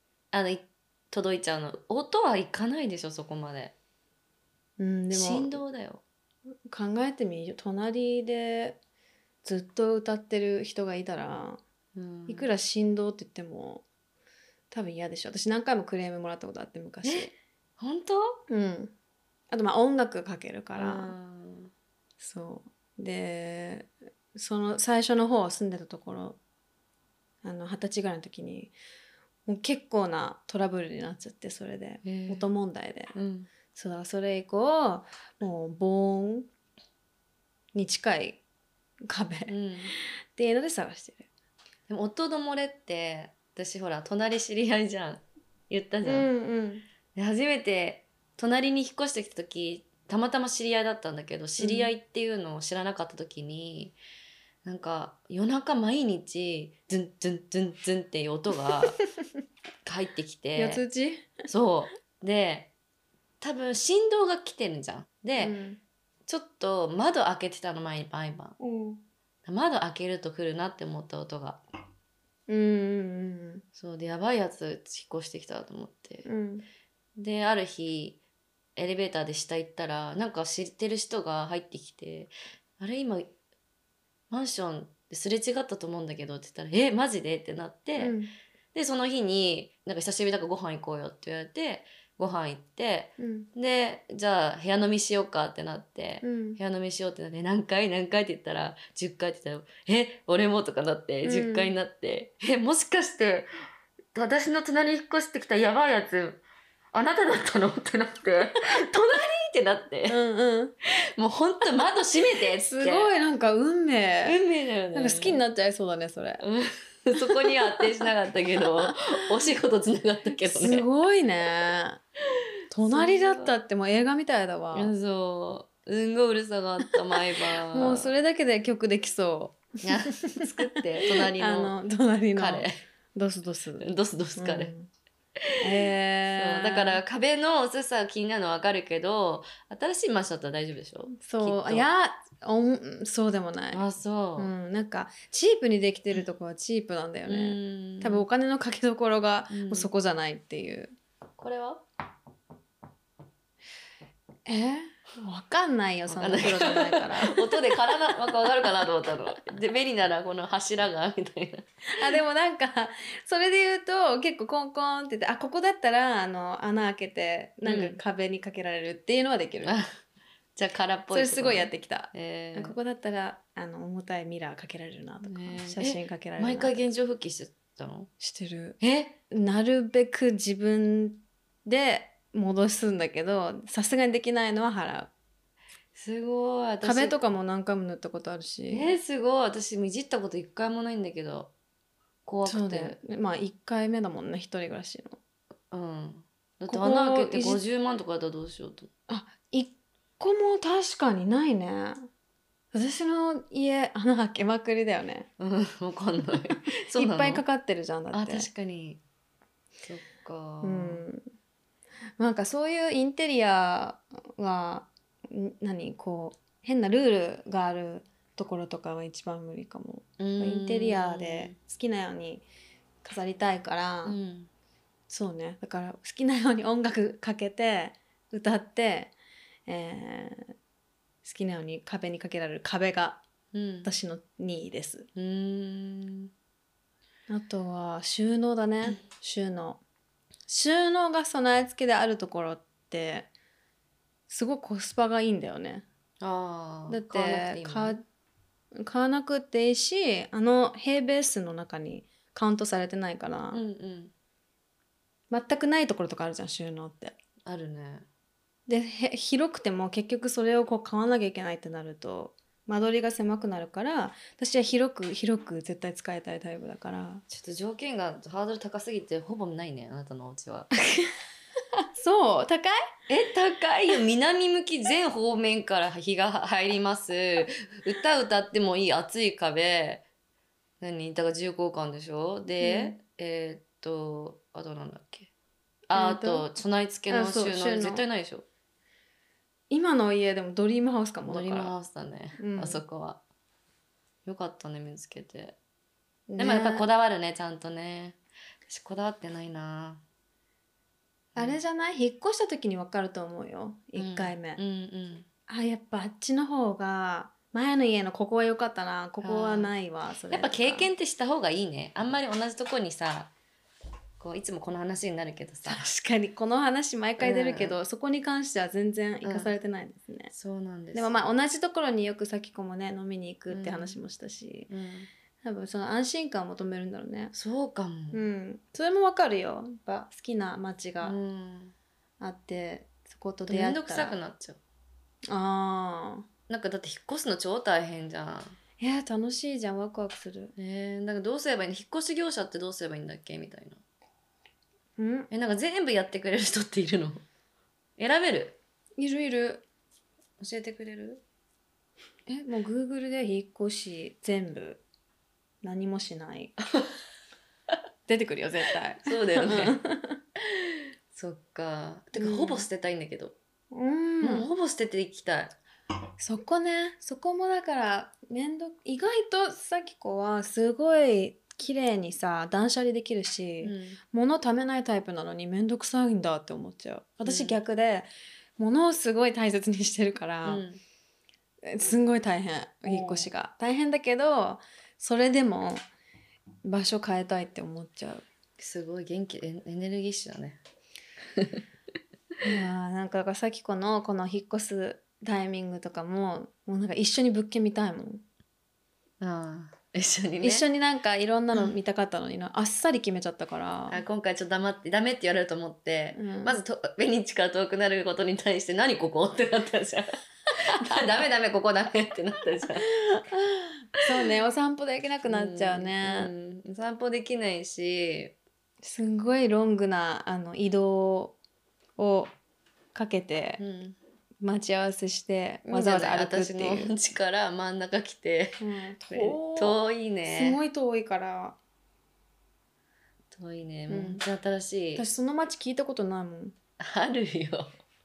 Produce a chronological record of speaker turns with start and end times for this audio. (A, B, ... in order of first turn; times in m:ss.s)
0:00.3-0:03.8 A
0:04.8-0:05.6 B
0:05.1-0:06.0 A
0:06.7-0:08.8 B
0:09.4-0:11.6 B
0:12.0-0:12.5 A
0:12.3-0:13.8 B
0:14.7-0:17.3 B
0:17.0-0:18.4 A
0:18.5-0:18.9 B
0:19.5-0:21.2 B
0:20.8-0:21.7 A
0:22.2-0:26.4 B
0:27.4-0:28.7 B
0:29.5-0:33.1 B
0:32.0-0:32.5 A
0:33.1-0:33.5 A
0:33.7-0:36.5 B
0:37.8-0:38.4 B
0:39.1-0:39.6 B
0:39.5-0:39.9 A
0:40.4-0:41.3 B
0:41.9-0:46.3 A
0:46.0-0:46.8 B
0:47.2-0:54.0 A
0:51.6-0:51.9 B
0:54.6-0:59.0 A
0:59.8-1:00.8 A
1:00.6-1:01.4 B
1:01.5-1:02.7 A
1:03.4-1:05.6 A
1:05.4-1:05.8 B
1:06.3-1:08.6 A
1:08.6-1:09.0 B
1:09.4-1:11.6 A
1:12.5-1:13.6 B
1:13.8-1:16.3 A
1:16.3-1:16.7 B
1:17.2-1:18.2 A
1:18.8-1:23.3 A
1:24.3-1:28.2 A
1:28.0-1:28.3 B
1:28.7-1:43.5 A
1:33.2-1:33.5 B
1:36.2-1:36.6 B
1:41.2-1:41.7 B
1:44.1-1:50.2 A
1:50.1-1:50.8 B
1:51.1-1:53.1 A
1:52.6-1:54.4 B
1:54.2-1:55.4 A
1:54.9-1:56.4 B
1:56.4-2:00.9 A
1:57.2-1:57.9 B
1:58.8-1:59.1 B
2:00.4-2:02.0 B
2:02.7-2:04.9 B
2:02.8-2:03.6 A
2:04.7-2:08.1 A
2:07.5-2:14.9 B
2:09.8-2:11.8 A
2:12.4-2:12.8 A
2:13.8-2:14.7 A
2:15.6-2:17.0 B
2:16.3-2:21.9 A
2:21.2-2:23.8 B
2:23.7-2:24.5 A
2:24.4-2:31.0 B
2:27.3-2:28.2 A
2:29.5-2:29.9 A
2:31.4-2:31.8 A
2:34.5-2:37.9 B
2:36.1-2:42.2 A
2:41.9-2:49.8 B
2:47.6-2:48.0 A
2:50.6-2:52.8 A
2:51.1-2:56.8 B
2:55.2-2:58.1 A
2:58.2-2:58.8 B
2:58.8-2:59.2 A
2:59.3-3:05.1 B
3:05.9-3:07.2 A
3:06.8-3:09.0 B
3:08.7-3:11.5 A
3:12.2-3:13.0 A
3:12.4-3:15.2 B
3:15.7-3:18.9 A
3:16.7-3:17.6 B
3:19.1-3:22.1 B
3:22.7-3:25.3 B
3:25.4-3:27.4 A
3:26.5-3:28.5 B
3:28.1-3:29.0 A
3:29.8-3:31.0 A
3:30.6-3:31.3 B
3:32.2-3:42.4 B
3:40.2-3:41.6 A
3:43.0-3:44.2 B
3:44.0-3:44.5 A
3:45.1-3:49.2 B
3:49.7-3:50.5 B
3:51.2-3:53.2 B
3:53.5-3:53.9 A
3:53.8-3:55.1 B
3:55.2-3:56.3 A
3:57.3-3:59.8 B
4:00.5-4:03.3 B
4:04.3-4:05.8 B
4:06.2-4:08.0 A
4:06.9-4:08.0 B
4:08.8-4:13.6 B
4:13.5-4:14.1 A
4:15.3-4:17.2 B
4:17.4-4:18.1 A
4:18.7-4:27.2 B
4:27.3-4:30.7 A
4:32.0-4:32.9 B
4:33.1-4:40.0 A
4:40.8-4:45.3 A
4:42.6-4:43.0 B
4:45.9-4:48.4 A
4:46.0-4:46.5 B
4:47.1-4:48.0 B
4:49.7-4:51.7 B
4:51.3-4:53.2 A
4:52.4-4:52.8 B
4:54.2-4:55.6 A
4:56.3-4:56.9 B
4:56.4-5:00.0 A
5:01.4-5:04.6 B
5:04.0-5:05.3 A
5:05.5-5:10.9 B
5:09.2-5:09.7 A
5:10.3-5:13.3 A
5:14.2-5:15.8 A
5:15.7-5:20.3 B
5:17.2-5:17.8 A
5:19.2-5:19.5 A
5:20.3-5:21.2 A
5:20.9-5:24.7 B
5:23.5-5:24.0 A
5:24.7-5:25.1 A
5:25.4-5:27.3 B
5:27.3-5:28.2 A
5:28.1-5:31.2 B
5:31.0-5:31.7 A
5:32.2-5:34.2 B
5:33.5-5:34.6 A
5:35.3-5:36.3 B
5:36.5-5:38.6 A
5:38.8-5:40.5 B
5:40.6-5:43.8 A
5:45.0-5:45.3 B
5:45.3-5:47.2 A
5:48.0-5:48.6 A
5:49.0-5:49.6 B
5:50.4-5:51.2 A
5:52.3-5:54.8 B
5:55.6-5:56.6 B
5:58.1-6:00.2 B
5:59.0-5:59.8 A
6:00.4-6:03.4 A
6:02.1-6:02.7 B
6:03.7-6:04.5 B
6:04.2-6:05.5 A
6:06.2-6:20.6 B
6:13.6-6:14.0 A
6:17.2-6:17.6 A
6:20.4-6:20.8 A
6:21.6-6:25.8 B
6:22.9-6:23.3 A
6:26.6-6:28.2 B
6:28.6-6:30.6 A
6:31.4-6:31.6 A
6:32.4-6:38.2 B
6:39.2-6:40.7 A
6:40.4-6:44.0 B
6:43.9-6:52.9 A
6:46.2-6:46.6 B
6:52.9-6:56.3 B
6:55.3-6:58.4 A
6:58.8-7:01.4 B
7:02.0-7:02.3 B
7:03.0-7:03.6 B
7:03.6-7:04.0 A
7:04.4-7:06.9 B
7:05.7-7:10.6 A
7:08.6-7:11.6 B
7:13.3-7:15.1 A
7:13.9-7:14.2 B
7:15.0-7:16.5 B
7:16.8-7:17.8 A